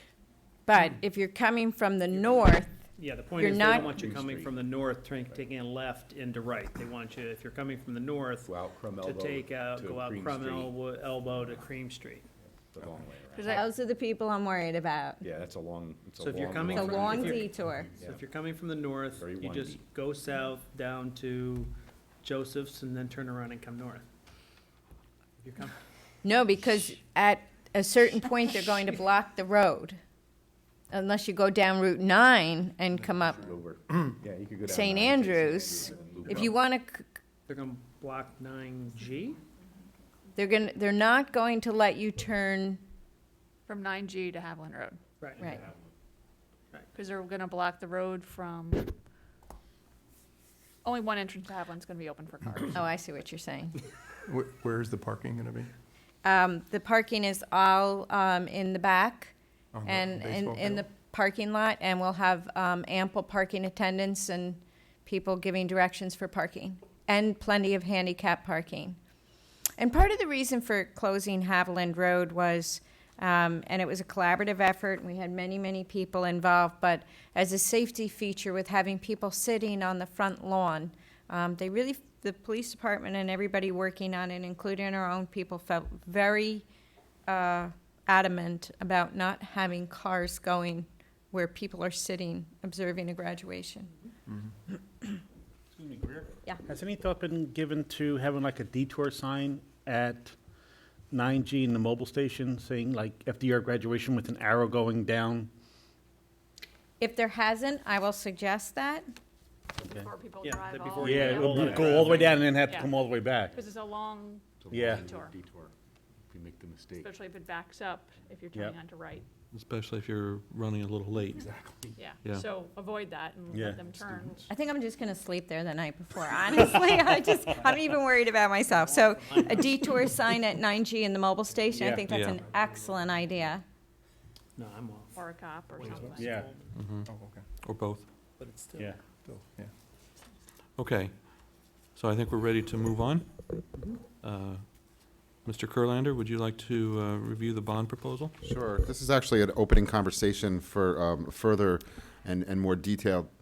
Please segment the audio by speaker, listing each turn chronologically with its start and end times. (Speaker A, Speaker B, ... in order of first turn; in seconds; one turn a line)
Speaker A: 0.7-2.7
Speaker B: 2.9-12.2
Speaker A: 3.3-4.0
Speaker C: 3.5-4.7
Speaker C: 8.4-10.8
Speaker C: 12.7-13.7
Speaker D: 13.3-13.7
Speaker A: 13.5-15.2
Speaker C: 15.2-18.2
Speaker B: 16.2-21.7
Speaker A: 16.7-17.9
Speaker C: 19.1-19.8
Speaker B: 22.2-24.1
Speaker B: 25.4-25.7
Speaker A: 26.2-30.0
Speaker A: 30.9-33.4
Speaker C: 33.3-36.6
Speaker A: 34.6-37.1
Speaker B: 37.5-39.4
Speaker A: 40.3-42.8
Speaker D: 43.7-45.0
Speaker B: 45.2-45.5
Speaker D: 46.9-48.9
Speaker D: 50.8-52.9
Speaker A: 52.7-53.8
Speaker E: 54.2-55.7
Speaker A: 56.2-69.0
Speaker E: 59.7-60.8
Speaker A: 69.8-86.6
Speaker A: 87.3-93.9
Speaker F: 95.7-100.3
Speaker F: 101.1-105.5
Speaker A: 107.0-109.0
Speaker D: 109.8-115.3
Speaker B: 110.4-112.4
Speaker F: 111.0-113.5
Speaker C: 111.6-112.5
Speaker F: 114.7-115.1
Speaker C: 114.7-115.7
Speaker C: 116.3-117.0
Speaker D: 117.0-119.2
Speaker G: 119.5-121.5
Speaker D: 122.0-124.5
Speaker F: 123.5-123.8
Speaker A: 124.5-133.6
Speaker B: 128.7-129.9
Speaker G: 132.0-132.4
Speaker B: 134.6-135.1
Speaker D: 135.1-136.4
Speaker B: 135.7-136.7
Speaker G: 136.7-137.1
Speaker E: 137.0-137.4
Speaker G: 137.6-138.1
Speaker B: 138.4-138.9
Speaker E: 139.2-139.7
Speaker G: 140.8-143.6
Speaker G: 144.2-148.3
Speaker H: 148.4-153.3